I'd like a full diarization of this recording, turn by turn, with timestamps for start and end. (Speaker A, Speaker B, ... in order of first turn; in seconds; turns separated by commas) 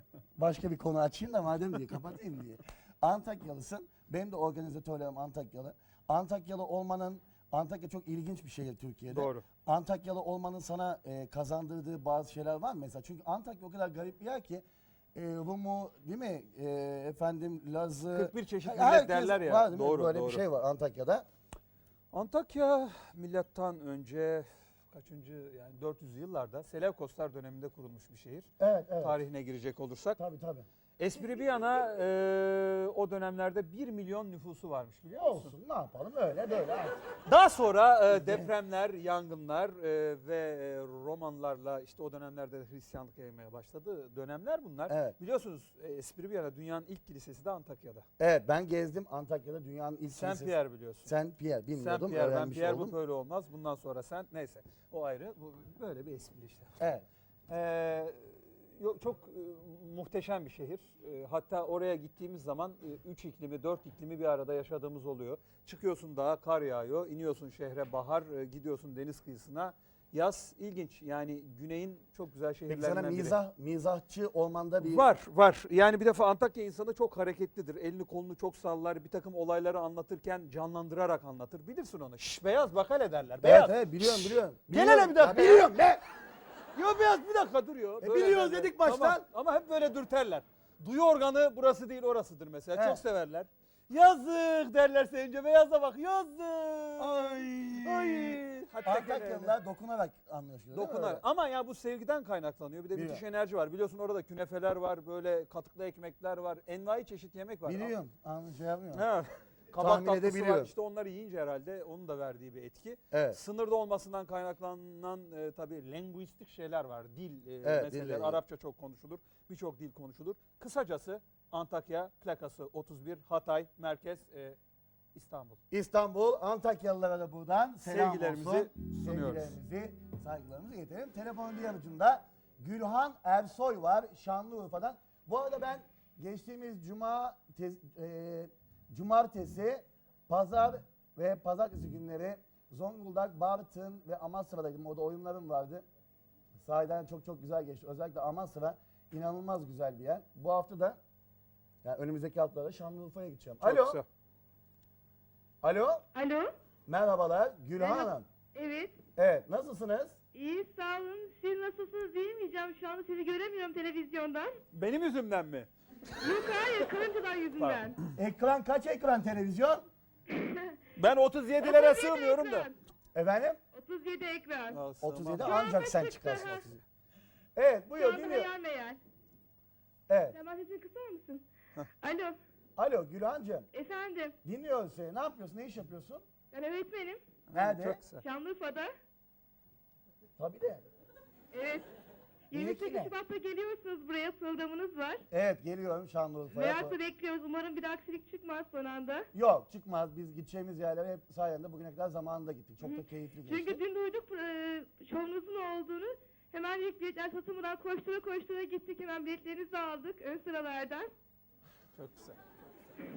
Speaker A: 0.3-21.2, Speaker B: 9.1-9.4, Speaker B: 18.1-20.4, Speaker B: 22.1-28.5, Speaker A: 28.6-29.2, Speaker B: 29.0-30.2, Speaker A: 30.2-30.7, Speaker B: 31.0-35.5, Speaker A: 35.1-37.0, Speaker B: 37.2-48.0, Speaker A: 38.1-38.5, Speaker A: 44.9-45.2, Speaker A: 48.2-52.9, Speaker B: 50.1-51.1, Speaker B: 51.8-56.7, Speaker A: 56.8-57.0, Speaker B: 57.5-73.3, Speaker A: 72.7-75.0, Speaker B: 74.8-85.7, Speaker A: 83.4-86.0, Speaker B: 86.7-97.2, Speaker A: 88.0-89.2, Speaker A: 92.7-93.0, Speaker A: 97.0-101.2, Speaker B: 97.8-99.5, Speaker B: 100.7-107.9, Speaker A: 102.9-103.2, Speaker A: 107.6-109.0, Speaker B: 108.9-124.6, Speaker A: 109.8-110.7, Speaker A: 113.1-113.4, Speaker A: 117.6-118.4, Speaker B: 125.1-125.6, Speaker A: 125.7-145.8, Speaker B: 127.8-129.6, Speaker A: 146.6-151.0, Speaker A: 151.8-154.0, Speaker B: 153.6-154.0, Speaker A: 155.6-156.0, Speaker C: 156.1-156.5, Speaker A: 156.9-158.2, Speaker C: 157.8-159.0, Speaker A: 159.2-160.2, Speaker C: 160.3-164.6, Speaker B: 164.7-165.7, Speaker C: 166.2-167.9, Speaker B: 166.2-166.7, Speaker B: 167.6-167.9, Speaker A: 168.2-169.8, Speaker C: 170.3-170.8, Speaker B: 170.9-172.7, Speaker C: 171.6-172.7, Speaker A: 173.1-173.6, Speaker C: 173.7-174.8, Speaker B: 174.7-175.6, Speaker A: 175.0-176.8, Speaker C: 175.4-176.7, Speaker A: 177.5-178.5, Speaker C: 177.9-179.0, Speaker A: 180.1-180.4, Speaker C: 180.3-181.4, Speaker C: 182.0-182.4, Speaker A: 182.8-183.7, Speaker C: 183.7-184.3, Speaker A: 184.4-186.2, Speaker C: 186.5-187.2, Speaker B: 187.5-188.2, Speaker A: 187.5-188.0, Speaker C: 188.2-188.9, Speaker A: 190.4-190.8, Speaker C: 191.5-191.9, Speaker C: 192.5-195.2, Speaker A: 192.5-193.1, Speaker A: 195.3-196.9, Speaker C: 196.5-199.3, Speaker A: 199.3-203.8, Speaker C: 202.8-211.1, Speaker B: 211.9-212.4